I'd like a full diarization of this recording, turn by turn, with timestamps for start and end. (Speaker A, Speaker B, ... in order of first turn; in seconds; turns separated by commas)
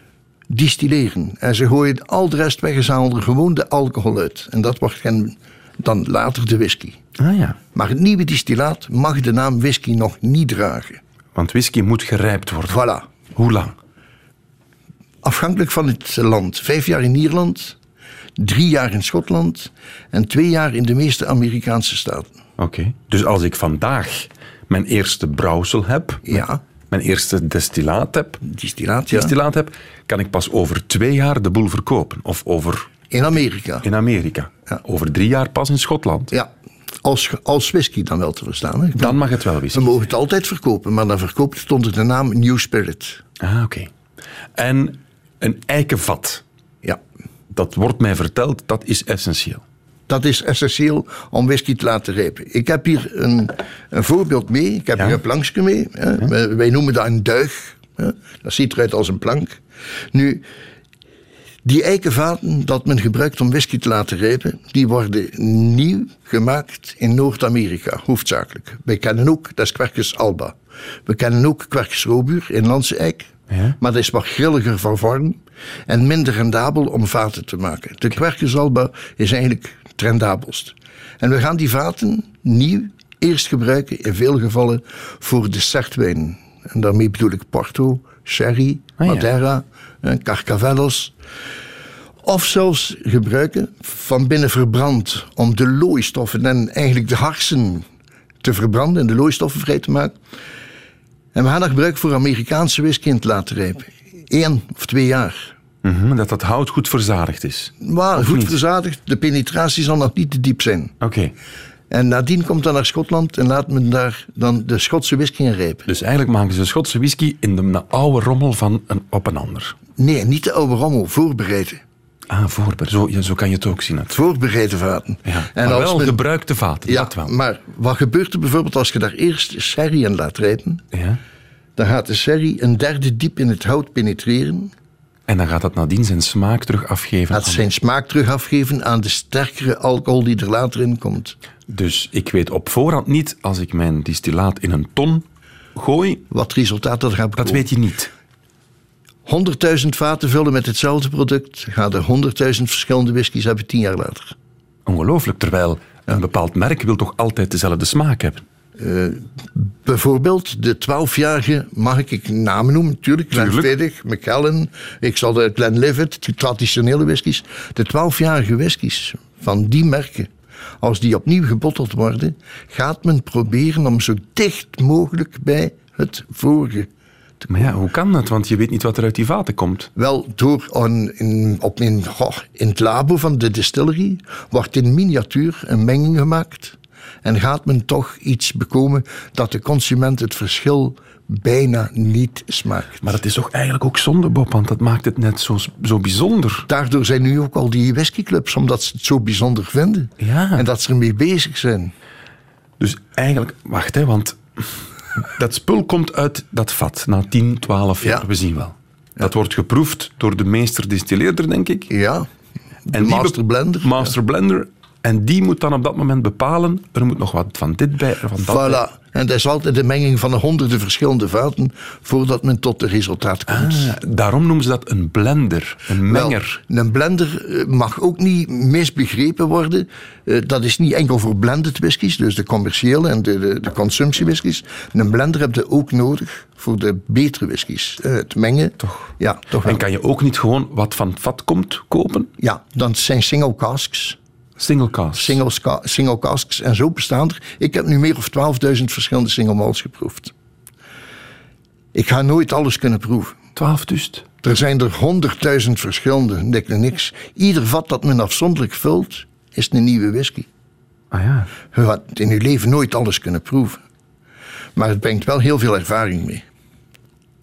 Speaker A: 0.5-7.0, Speaker B: 7.2-7.6, Speaker A: 7.7-11.0, Speaker B: 11.3-12.8, Speaker A: 12.7-13.0, Speaker B: 13.3-13.8, Speaker A: 15.2-17.8, Speaker A: 18.4-22.3, Speaker B: 22.6-28.4, Speaker A: 26.2-26.6, Speaker A: 28.4-29.3, Speaker B: 29.1-32.9, Speaker A: 33.1-33.9, Speaker B: 33.8-36.3, Speaker A: 37.0-39.2, Speaker B: 38.9-40.1, Speaker A: 39.7-43.2, Speaker B: 43.4-43.9, Speaker B: 44.5-46.4, Speaker B: 47.5-49.6, Speaker A: 50.1-59.6, Speaker A: 60.1-60.4, Speaker A: 61.6-91.1, Speaker B: 73.5-73.8, Speaker B: 89.0-89.3, Speaker A: 92.2-97.8, Speaker A: 98.4-100.1, Speaker A: 101.3-105.5, Speaker B: 105.8-108.6, Speaker A: 107.8-110.9, Speaker B: 111.0-111.3, Speaker A: 111.9-115.9, Speaker B: 115.8-119.8, Speaker A: 120.0-121.8, Speaker B: 122.3-124.2, Speaker A: 124.1-126.2, Speaker B: 125.2-127.3, Speaker A: 126.8-130.8, Speaker B: 130.9-131.2, Speaker A: 131.8-134.7, Speaker B: 135.3-137.7, Speaker A: 137.3-141.3, Speaker B: 141.7-146.2, Speaker A: 146.3-147.7, Speaker B: 147.4-148.1, Speaker A: 149.2-154.3, Speaker B: 154.8-158.4, Speaker A: 158.8-170.3, Speaker B: 163.3-163.7, Speaker A: 170.8-176.9, Speaker A: 177.4-177.7, Speaker B: 177.5-179.9, Speaker A: 179.9-193.2, Speaker B: 193.0-196.7, Speaker A: 196.7-201.9, Speaker B: 200.2-200.7, Speaker B: 202.8-211.9, Speaker A: 211.9-212.3, Speaker A: 212.9-214.1, Speaker B: 212.9-218.8, Speaker A: 218.4-223.9, Speaker B: 223.5-226.6, Speaker A: 226.1-239.8, Speaker B: 238.8-239.1, Speaker B: 239.6-242.3, Speaker A: 242.4-244.2, Speaker B: 244.6-245.4, Speaker A: 245.1-250.3, Speaker A: 251.9-253.4, Speaker B: 253.6-254.2, Speaker A: 254.4-260.5, Speaker B: 261.1-261.5, Speaker A: 261.7-263.8, Speaker A: 264.8-266.4